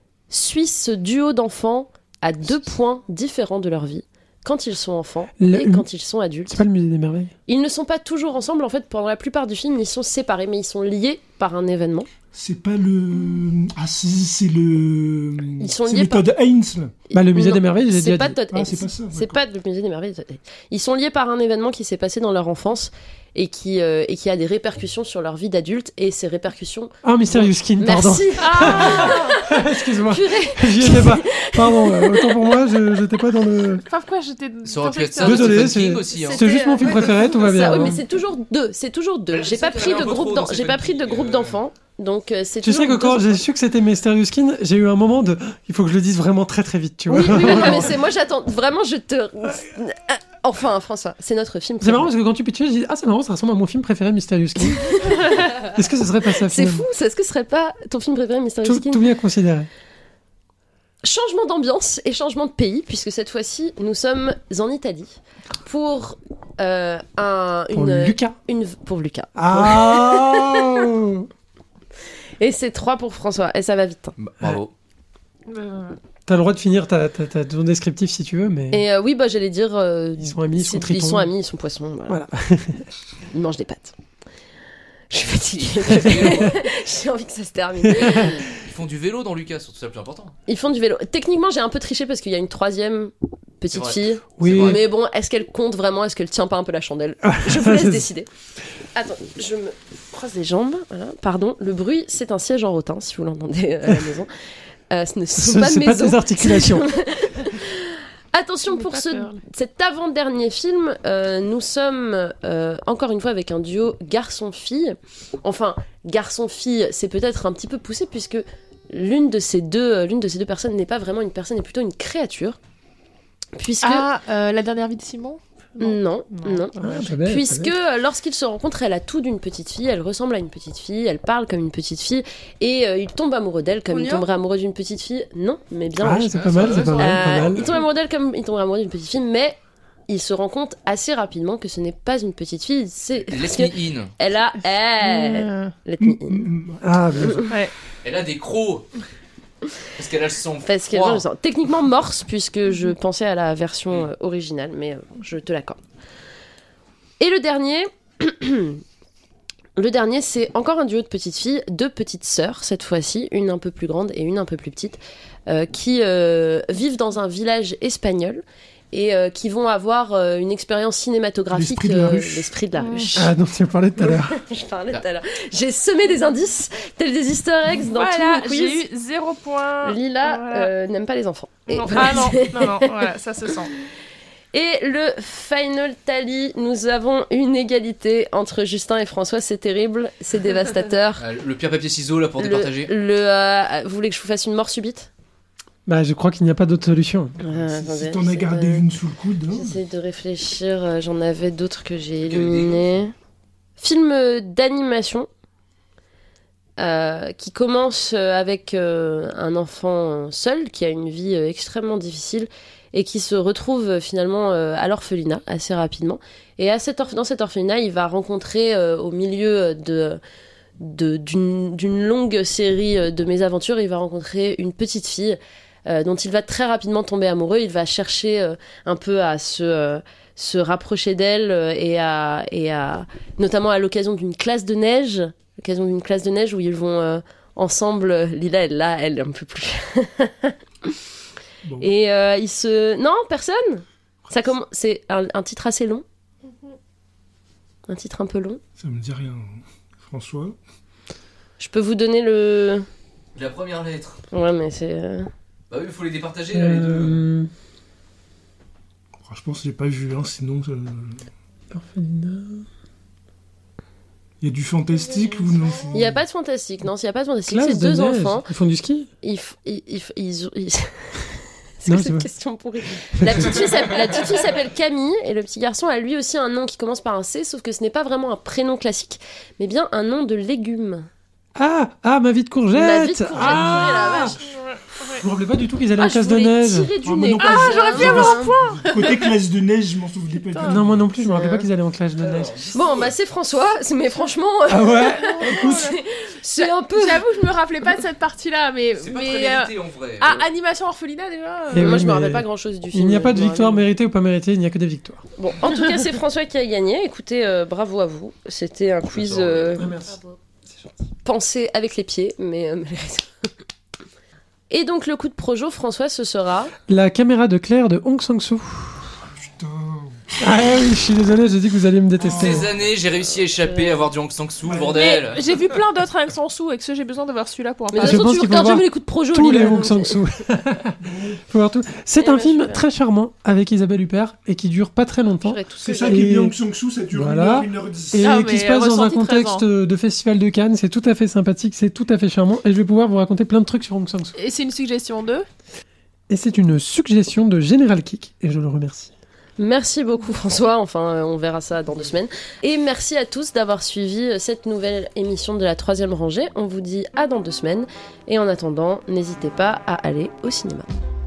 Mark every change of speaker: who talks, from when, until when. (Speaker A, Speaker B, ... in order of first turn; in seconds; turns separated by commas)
Speaker A: 0.3-6.6, Speaker B: 5.4-5.9, Speaker B: 6.5-7.3, Speaker A: 7.5-12.1, Speaker C: 12.3-16.9, Speaker A: 15.6-16.2, Speaker A: 17.1-32.5, Speaker B: 17.1-18.4, Speaker C: 18.5-19.4, Speaker B: 27.0-33.8, Speaker D: 28.4-29.3, Speaker D: 33.9-35.7, Speaker E: 34.6-36.4, Speaker B: 35.2-38.0, Speaker A: 36.1-43.4, Speaker E: 39.3-41.6, Speaker B: 42.6-48.0, Speaker A: 47.1-52.1, Speaker B: 51.8-56.9, Speaker A: 54.9-55.5, Speaker A: 56.4-59.0, Speaker B: 58.6-59.7, Speaker A: 61.0-70.8, Speaker B: 67.7-68.3, Speaker B: 69.3-71.3, Speaker A: 72.4-74.2, Speaker E: 74.2-74.7, Speaker D: 75.5-76.0, Speaker B: 76.3-78.8, Speaker A: 78.7-82.2, Speaker B: 80.2-81.3, Speaker B: 82.1-82.9, Speaker A: 83.3-84.0, Speaker A: 85.1-88.5, Speaker E: 85.3-86.5, Speaker B: 86.2-86.6, Speaker B: 87.8-88.4, Speaker E: 88.6-90.3, Speaker A: 90.5-98.3, Speaker E: 93.7-94.9, Speaker B: 94.4-94.8, Speaker B: 97.2-98.1, Speaker A: 98.9-104.3, Speaker A: 104.9-122.6, Speaker B: 105.4-106.9, Speaker D: 108.7-109.5, Speaker A: 123.5-124.1, Speaker D: 123.8-127.0, Speaker A: 125.8-139.6, Speaker B: 126.8-127.7, Speaker D: 133.9-134.2, Speaker B: 136.0-137.7, Speaker E: 136.3-137.8, Speaker A: 140.1-146.5, Speaker E: 143.3-144.1, Speaker D: 145.0-145.7, Speaker C: 146.0-146.9, Speaker B: 146.8-147.5, Speaker A: 147.2-147.4, Speaker D: 147.5-147.7, Speaker E: 148.0-148.9, Speaker E: 149.9-151.2, Speaker A: 150.6-155.8, Speaker A: 157.2-158.8, Speaker A: 159.8-173.3, Speaker C: 171.5-172.5, Speaker D: 172.7-173.1, Speaker B: 173.2-174.4, Speaker A: 174.0-178.8, Speaker D: 177.9-180.7, Speaker A: 179.8-183.1, Speaker D: 181.7-183.7, Speaker A: 184.5-191.2, Speaker E: 191.2-192.9, Speaker A: 192.4-195.1, Speaker B: 195.8-197.4, Speaker A: 197.4-198.9, Speaker C: 197.5-199.8, Speaker A: 199.5-203.1, Speaker E: 202.2-202.9, Speaker A: 203.8-205.3, Speaker A: 206.8-220.2, Speaker A: 220.8-240.9, Speaker C: 241.6-241.9, Speaker A: 241.8-246.0, Speaker A: 247.9-248.6, Speaker C: 248.8-250.6, Speaker A: 251.6-252.8, Speaker E: 253.3-254.2, Speaker A: 254.3-255.3, Speaker E: 255.7-257.2, Speaker B: 256.5-257.5, Speaker C: 259.2-261.3, Speaker B: 261.7-262.6, Speaker C: 264.4-266.2, Speaker A: 265.9-268.5, Speaker B: 267.5-269.1, Speaker A: 269.2-281.1, Speaker B: 271.9-272.3, Speaker B: 273.2-273.6, Speaker B: 281.6-284.4, Speaker A: 282.7-284.4, Speaker D: 284.0-285.2, Speaker B: 285.2-286.9, Speaker A: 286.0-288.5, Speaker C: 287.0-291.1, Speaker D: 287.4-289.4, Speaker D: 290.4-291.6, Speaker B: 290.6-292.7, Speaker E: 292.3-293.1, Speaker A: 292.7-297.2, Speaker B: 294.7-295.9, Speaker D: 295.2-296.0, Speaker D: 296.6-302.0, Speaker E: 299.0-300.4, Speaker B: 301.7-305.2, Speaker A: 301.8-303.9, Speaker A: 305.4-309.9, Speaker E: 309.1-309.9, Speaker B: 309.8-310.2, Speaker A: 311.2-313.5, Speaker A: 314.7-316.7, Speaker B: 316.9-319.1, Speaker C: 319.4-320.3, Speaker B: 320.4-322.7, Speaker C: 322.2-322.7, Speaker E: 322.3-325.6, Speaker A: 323.6-324.1, Speaker C: 324.6-325.0, Speaker D: 324.9-328.2, Speaker A: 327.9-330.2, Speaker B: 327.9-331.0, Speaker C: 331.0-331.4, Speaker B: 331.5-336.6, Speaker A: 332.2-332.8, Speaker A: 335.4-336.2, Speaker C: 335.8-338.3, Speaker B: 337.1-344.4, Speaker D: 338.2-339.6, Speaker D: 344.3-345.4, Speaker B: 346.3-349.1, Speaker A: 349.6-360.9